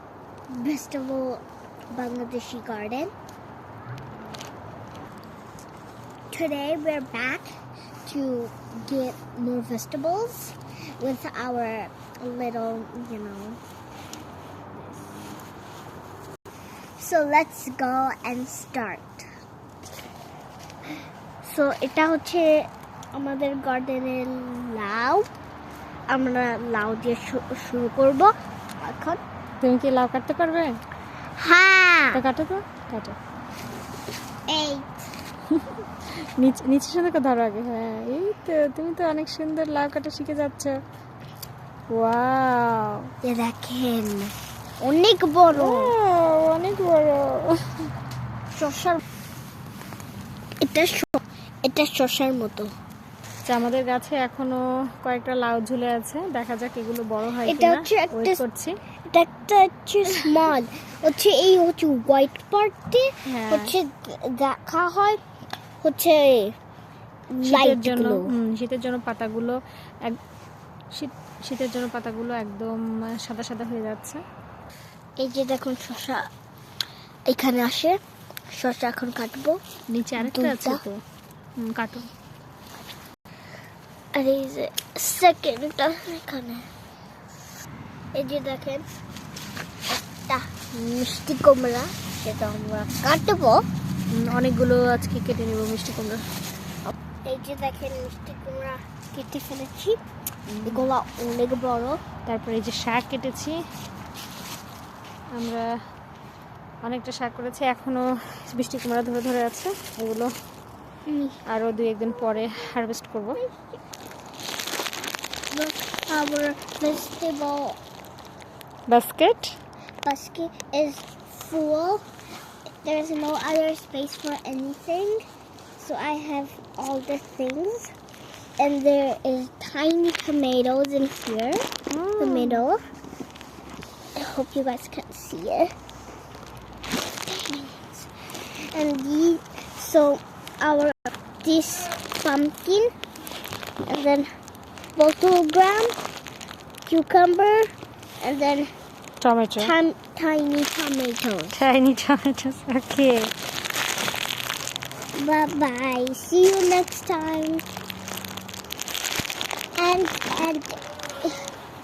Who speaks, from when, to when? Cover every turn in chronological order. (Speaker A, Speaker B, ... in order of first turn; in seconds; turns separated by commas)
Speaker A: 0.5-3.1, Speaker A: 6.3-7.5, Speaker A: 8.1-13.6, Speaker A: 14.7-15.0, Speaker A: 17.0-19.2, Speaker A: 21.4-25.2, Speaker A: 26.1-29.2, Speaker B: 29.6-30.7, Speaker A: 31.4-32.2, Speaker B: 32.1-33.2, Speaker A: 34.5-34.9, Speaker B: 36.4-40.8, Speaker B: 41.9-43.1, Speaker A: 43.2-45.9, Speaker B: 45.5-47.9, Speaker A: 48.5-49.0, Speaker A: 50.6-52.7, Speaker B: 53.5-58.8, Speaker A: 57.4-58.4, Speaker A: 59.1-65.2, Speaker B: 63.3-63.7, Speaker A: 65.8-66.5, Speaker A: 67.3-68.3, Speaker B: 67.4-70.2, Speaker B: 70.9-74.2, Speaker A: 75.2-76.3, Speaker A: 77.3-78.0, Speaker A: 78.5-79.6, Speaker B: 79.9-81.0, Speaker A: 80.2-80.8, Speaker B: 81.6-82.1, Speaker A: 84.1-86.7, Speaker A: 88.1-88.8, Speaker A: 89.9-93.7, Speaker B: 94.1-96.2, Speaker A: 96.9-100.0, Speaker B: 100.5-100.8, Speaker A: 100.6-102.0, Speaker B: 102.2-103.5, Speaker B: 105.3-105.6, Speaker B: 106.8-110.3, Speaker A: 111.1-111.4, Speaker B: 111.5-113.4, Speaker A: 112.2-112.6, Speaker A: 113.3-113.8, Speaker A: 115.5-117.8, Speaker B: 118.9-119.5, Speaker A: 120.0-122.0, Speaker A: 122.8-125.2, Speaker A: 125.8-127.9, Speaker A: 128.6-131.6, Speaker B: 131.9-132.6, Speaker A: 132.2-132.8, Speaker A: 134.1-135.7, Speaker A: 137.2-142.9, Speaker A: 143.8-144.3, Speaker A: 144.9-145.9, Speaker A: 146.8-148.7, Speaker B: 149.2-149.7, Speaker A: 149.6-151.6, Speaker B: 151.5-153.3, Speaker A: 155.1-157.6, Speaker A: 159.8-161.4